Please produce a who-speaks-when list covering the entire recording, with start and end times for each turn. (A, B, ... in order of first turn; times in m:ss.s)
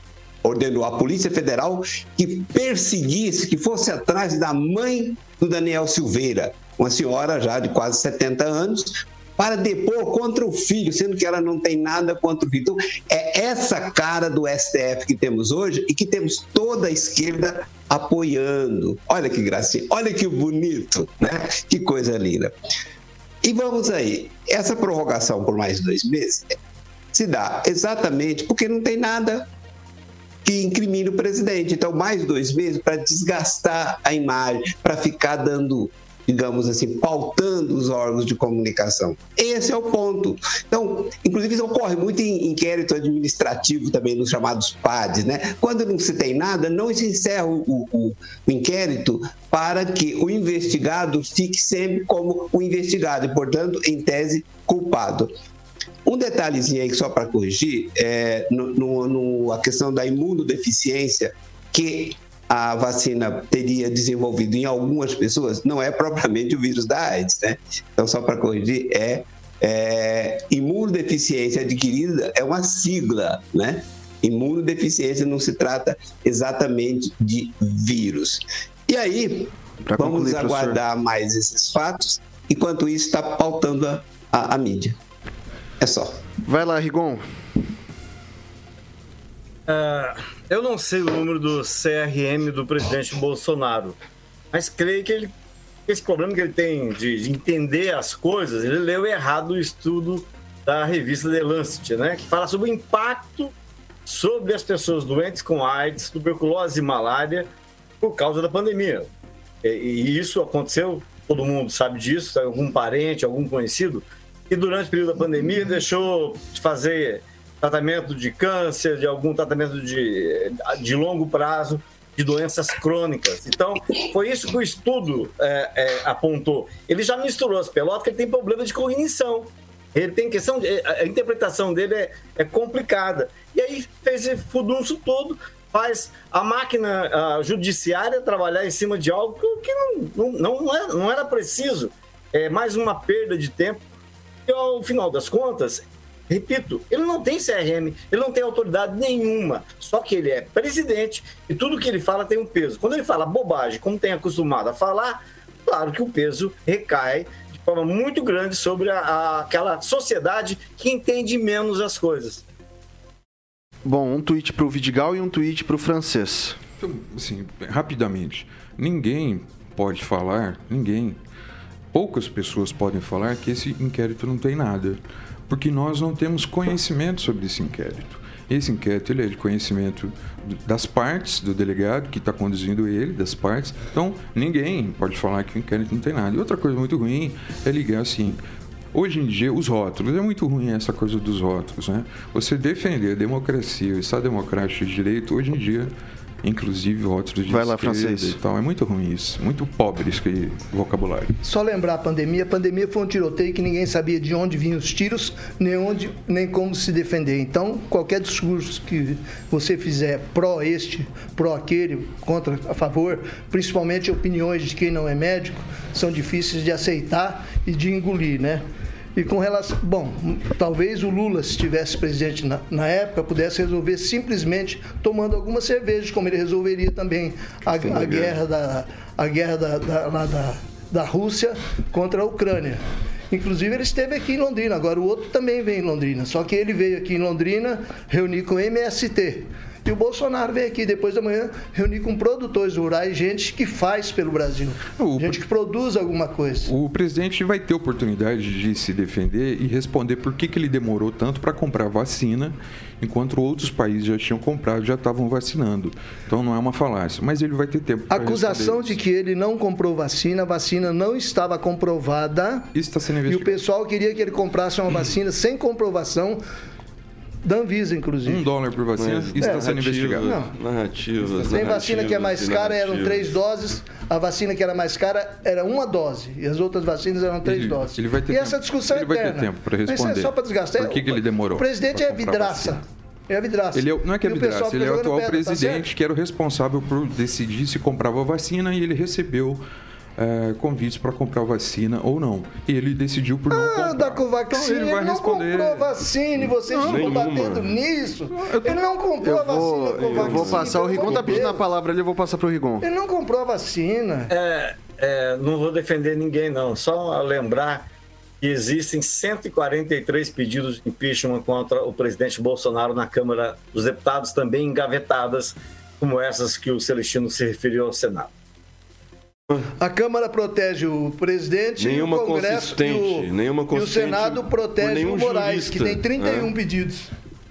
0:00.4-0:22.5 A
0:23.4-0:26.6 A
0:27.1-0:29.5 A
0:30.4-0:55.3 A
0:56.0-1:25.0 A
1:19.8-1:20.8 B
1:25.8-1:26.2 A
1:26.4-1:27.2 B
1:29.7-1:34.0 C
1:34.5-1:35.3 C
1:35.9-1:43.5 C
1:44.0-1:47.5 C
1:48.0-1:49.1 C
1:49.6-2:23.8 C
2:24.4-2:42.4 C
2:43.8-2:46.6 B
2:46.8-2:51.2 D
2:51.9-3:08.4 D
3:08.9-3:15.9 D
3:16.4-3:21.4 D
3:17.5-3:18.4 B
3:21.4-3:38.6 E
3:39.1-4:06.7 E
3:47.8-3:48.4 F
4:04.9-4:05.4 D
4:06.6-4:19.0 D
4:18.1-4:22.7 E
4:22.7-4:23.6 D
4:23.2-4:26.4 E
4:27.4-4:28.5 E
4:28.2-4:30.3 D
4:29.0-4:33.4 F
4:29.4-4:29.6 E
4:30.2-4:30.5 E
4:31.3-4:45.9 E
4:37.4-4:42.8 D
4:43.7-4:49.6 D
4:50.2-4:55.9 D
4:53.5-5:01.6 E
4:56.7-4:57.5 D
4:56.8-4:57.8 F
4:58.3-4:58.8 D
4:59.2-5:02.8 B
4:59.9-5:01.5 F
5:02.8-5:04.3 E
5:04.3-5:07.9 C
5:08.4-5:18.3 C
5:19.8-5:27.1 E
5:21.8-5:26.5 F